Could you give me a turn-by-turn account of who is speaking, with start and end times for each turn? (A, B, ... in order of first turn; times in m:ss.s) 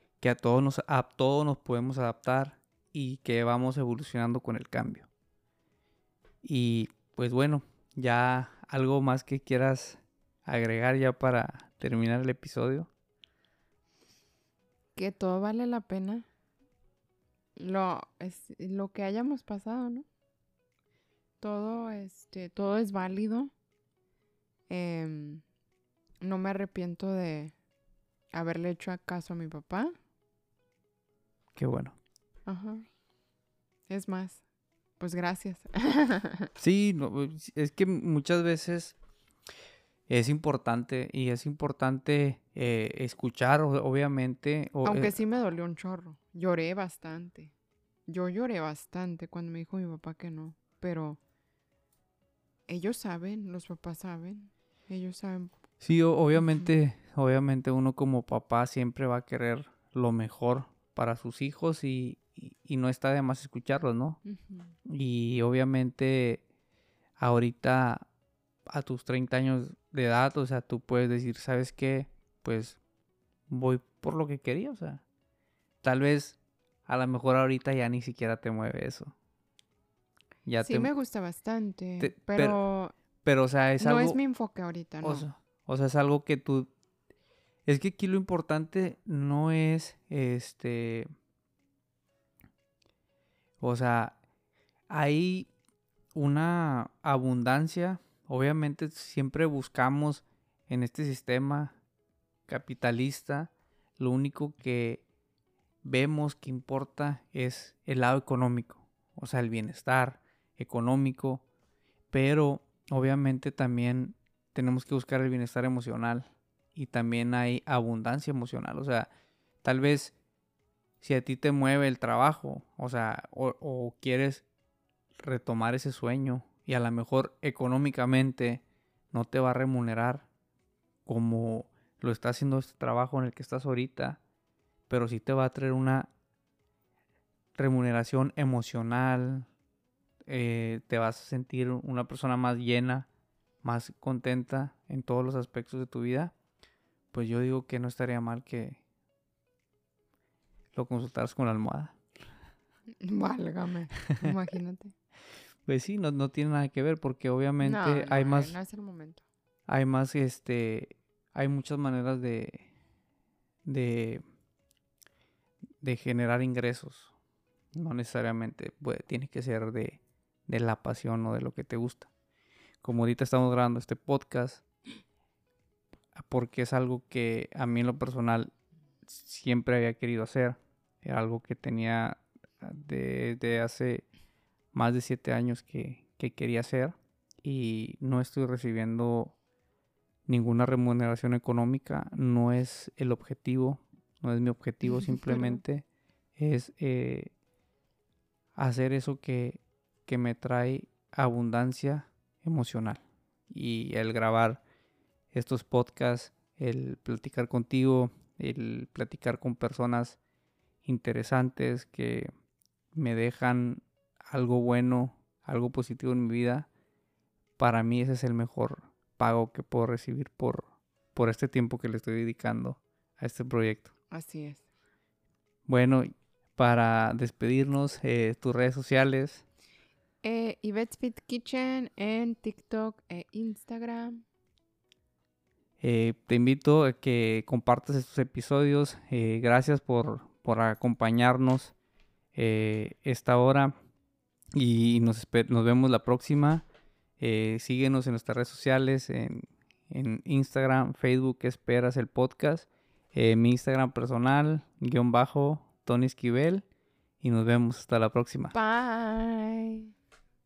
0:00.2-0:05.1 A
0:06.4-0:12.9 A
0:15.0-0:16.2 B
0:17.6-0:20.1 B
0:21.4-0:23.5 B
0:24.7-0:25.4 B
0:26.2-0:27.5 B
0:28.3-0:30.0 B
0:31.5-0:32.0 A
0:32.5-0:32.8 B
0:33.9-0:34.4 B
0:35.0-0:36.5 B
0:36.6-0:39.0 A
0:40.1-0:45.2 A
0:44.8-0:47.5 B
0:48.1-0:51.2 B
0:52.7-0:55.5 B
0:55.8-1:04.2 A
0:56.4-0:56.7 B
1:04.2-1:04.7 B
1:04.8-1:06.4 A
1:07.2-1:08.1 A
1:08.7-1:12.8 A
1:13.5-1:15.0 A
1:15.8-1:19.1 A
1:20.4-1:20.9 A
1:20.6-1:22.9 B
1:22.0-1:22.6 A
1:23.2-1:24.2 A
1:23.8-1:25.2 B
1:25.0-1:26.7 A
1:27.6-1:31.1 A
1:33.6-1:34.2 A
1:34.9-1:35.5 A
1:36.1-1:41.7 A
1:42.5-1:45.0 A
1:45.8-1:51.4 A
1:52.1-1:59.1 A
1:59.6-2:00.1 A
2:01.0-2:04.4 A
2:05.2-2:10.3 A
2:11.0-2:14.2 A
2:14.9-2:16.1 A
2:17.5-2:19.5 A
2:20.3-2:23.1 A
2:23.6-2:26.3 A
2:27.1-2:28.8 A
2:30.7-2:32.0 A
2:33.0-2:34.9 B
2:35.6-2:38.6 A
2:37.6-2:39.2 B
2:39.7-2:42.7 A
2:43.6-2:44.2 A
2:45.8-2:47.1 A
2:47.7-2:52.1 A
2:52.8-2:54.6 A
2:56.1-2:58.5 A
2:59.1-3:04.0 A
3:04.7-3:09.3 A
3:10.3-3:17.3 A
3:18.6-3:24.6 A
3:25.3-3:30.2 A
3:30.8-3:32.3 A
3:32.9-3:36.7 A
3:37.6-3:43.9 A
3:44.1-3:44.6 B
3:45.6-3:49.4 A
3:50.2-3:54.2 B
3:55.8-4:01.7 A
4:02.3-4:03.7 A
4:04.5-4:06.6 A
4:07.2-4:16.6 A
4:17.2-4:18.5 A
4:18.5-4:19.9 B